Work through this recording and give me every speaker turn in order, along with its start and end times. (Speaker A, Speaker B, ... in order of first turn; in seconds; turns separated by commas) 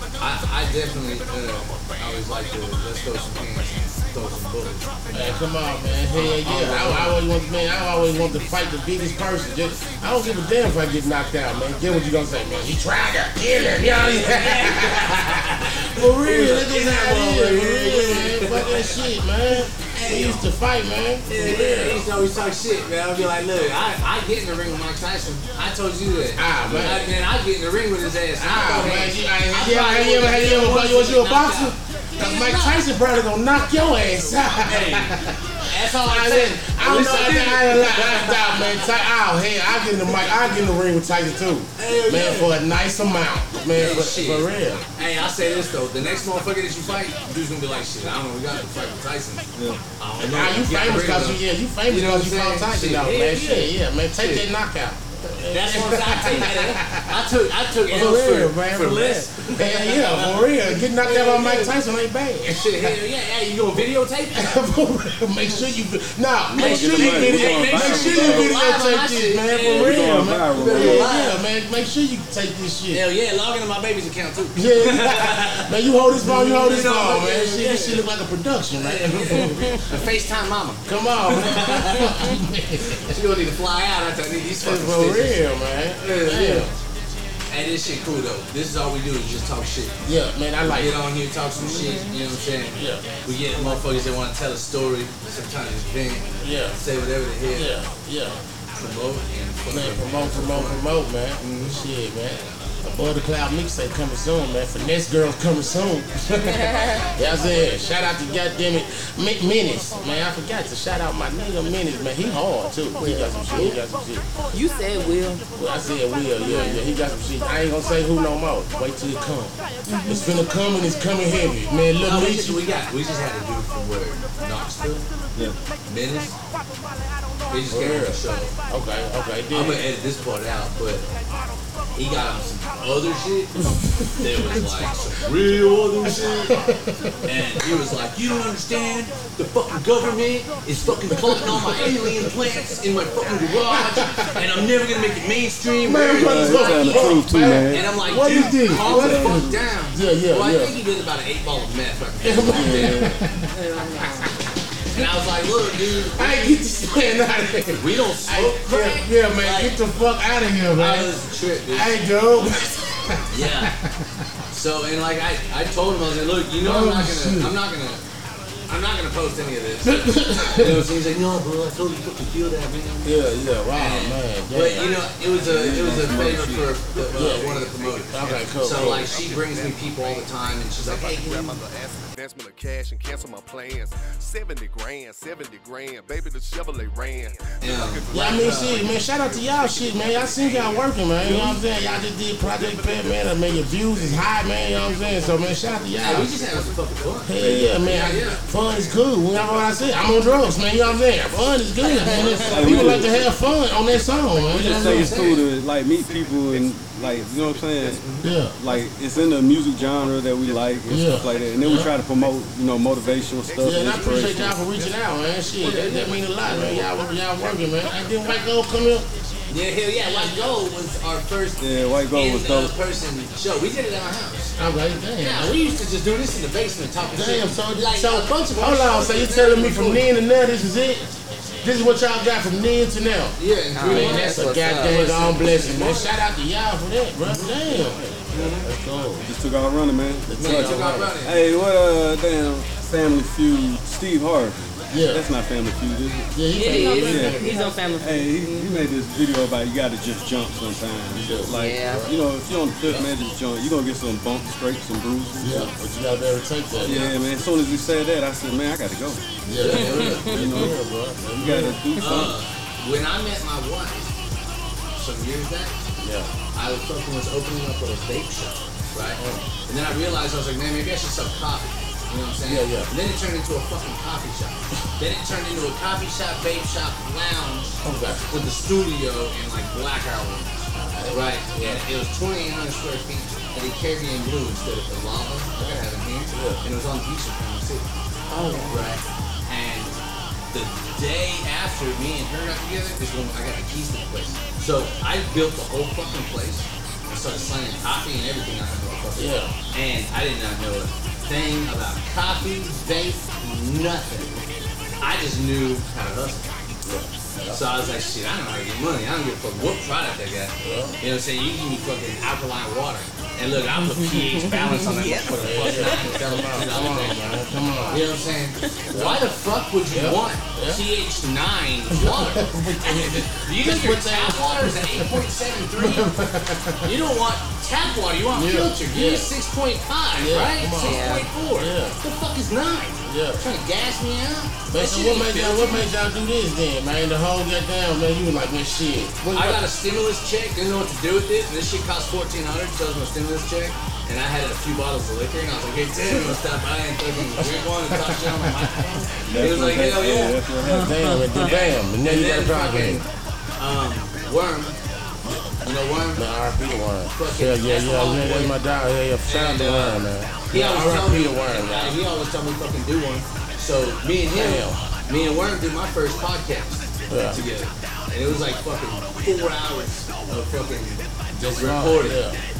Speaker A: 0.2-5.4, Speaker B: 5.1-22.1, Speaker A: 6.1-7.2, Speaker A: 13.7-20.4, Speaker A: 21.3-32.9, Speaker B: 26.4-27.1, Speaker B: 28.4-45.7, Speaker A: 34.5-35.2, Speaker A: 35.7-39.1, Speaker A: 41.8-42.5, Speaker A: 43.7-54.5, Speaker C: 49.6-49.8, Speaker B: 50.2-63.0, Speaker A: 55.5-61.7, Speaker A: 62.5-64.5, Speaker B: 64.3-73.0, Speaker C: 66.5-68.5, Speaker A: 66.6-71.4, Speaker C: 69.6-71.1, Speaker A: 72.9-78.0, Speaker B: 74.5-80.1, Speaker A: 78.8-82.4, Speaker B: 80.9-83.2, Speaker A: 82.9-86.7, Speaker B: 84.6-86.7, Speaker A: 87.5-90.0, Speaker B: 90.0-91.0, Speaker A: 90.6-97.8, Speaker B: 92.8-93.1, Speaker B: 96.4-96.8, Speaker B: 97.5-98.4, Speaker A: 98.7-100.8, Speaker B: 99.7-114.2, Speaker A: 101.4-101.8, Speaker D: 113.0-113.8, Speaker D: 114.5-115.4, Speaker B: 115.5-122.7, Speaker D: 116.4-116.8, Speaker D: 119.9-120.5, Speaker A: 122.0-125.1, Speaker A: 125.9-126.4, Speaker A: 127.5-128.5, Speaker B: 127.7-129.9, Speaker A: 129.5-131.1, Speaker A: 131.9-136.6, Speaker B: 133.6-134.7, Speaker B: 136.0-137.7, Speaker A: 137.2-153.1, Speaker B: 140.8-142.3, Speaker B: 143.7-144.6, Speaker B: 145.8-150.8, Speaker C: 146.2-147.9, Speaker C: 148.8-149.7, Speaker B: 152.2-154.3, Speaker C: 152.5-153.1, Speaker D: 153.5-154.3, Speaker A: 154.9-156.6, Speaker B: 155.6-161.1, Speaker A: 157.8-159.8, Speaker A: 160.7-162.0, Speaker B: 161.7-164.2, Speaker A: 163.3-163.7, Speaker A: 164.5-168.0, Speaker B: 166.6-167.6, Speaker A: 168.7-181.6, Speaker B: 169.8-170.9, Speaker B: 173.0-174.9, Speaker C: 175.4-176.8, Speaker E: 176.1-176.4, Speaker E: 176.9-204.4, Speaker B: 177.1-179.2, Speaker A: 187.6-189.0, Speaker B: 188.1-196.3, Speaker A: 196.0-198.4, Speaker B: 197.2-205.2, Speaker C: 197.4-197.8, Speaker A: 201.8-202.9, Speaker C: 202.4-203.1, Speaker C: 204.5-208.0, Speaker A: 204.5-205.5, Speaker E: 206.3-207.9, Speaker A: 207.9-208.8, Speaker B: 208.2-208.6, Speaker C: 208.6-214.6, Speaker E: 209.8-211.1, Speaker B: 210.9-211.9, Speaker E: 212.9-217.2, Speaker B: 213.6-219.1, Speaker A: 215.6-216.7, Speaker C: 216.4-216.8, Speaker E: 217.9-218.3, Speaker A: 219.5-224.5, Speaker B: 220.0-220.5, Speaker C: 221.6-222.7, Speaker B: 224.6-225.6, Speaker A: 225.2-230.1, Speaker B: 227.1-231.1, Speaker B: 231.6-239.3, Speaker A: 233.4-236.1, Speaker D: 233.7-235.6, Speaker A: 237.2-237.5, Speaker A: 238.3-238.7, Speaker C: 239.2-246.3, Speaker B: 240.3-241.1, Speaker A: 240.4-241.4, Speaker B: 244.9-245.3, Speaker B: 246.3-247.6, Speaker D: 246.5-248.8, Speaker C: 246.9-247.4, Speaker C: 248.0-255.8, Speaker B: 251.1-252.1, Speaker D: 251.5-252.1, Speaker B: 255.4-257.1, Speaker C: 256.8-259.2, Speaker A: 256.9-257.1, Speaker B: 259.4-261.8, Speaker A: 259.5-260.4, Speaker C: 259.8-260.8, Speaker C: 261.3-262.4, Speaker A: 262.0-264.1, Speaker A: 265.0-265.8, Speaker B: 266.0-266.3, Speaker A: 266.5-277.8, Speaker B: 269.2-269.5, Speaker B: 272.5-272.9, Speaker B: 277.8-278.2, Speaker A: 278.3-287.9, Speaker B: 280.7-281.9, Speaker B: 285.6-286.6, Speaker D: 288.3-288.9, Speaker A: 288.4-289.9, Speaker A: 290.5-304.4, Speaker B: 299.2-299.6, Speaker A: 305.0-306.6, Speaker B: 306.8-307.6, Speaker A: 307.5-317.2, Speaker B: 310.6-311.0, Speaker B: 313.7-314.7, Speaker D: 314.5-316.1, Speaker B: 315.3-318.1, Speaker A: 317.9-326.1, Speaker B: 318.9-319.3, Speaker B: 319.9-320.8, Speaker B: 321.9-325.2, Speaker B: 325.8-326.9, Speaker A: 326.8-335.9, Speaker B: 328.3-329.3, Speaker B: 330.2-332.0, Speaker D: 330.8-331.3, Speaker B: 333.1-333.4, Speaker B: 334.7-339.7, Speaker A: 339.3-350.4, Speaker B: 346.1-346.4, Speaker B: 347.4-349.1, Speaker C: 349.3-350.9, Speaker D: 350.6-351.4, Speaker B: 350.8-353.0, Speaker A: 351.4-353.1, Speaker A: 353.6-354.8, Speaker A: 355.6-356.2, Speaker B: 356.1-362.0, Speaker A: 357.1-358.6, Speaker A: 359.3-372.2, Speaker B: 364.3-364.9, Speaker B: 367.1-367.4, Speaker B: 371.4-372.4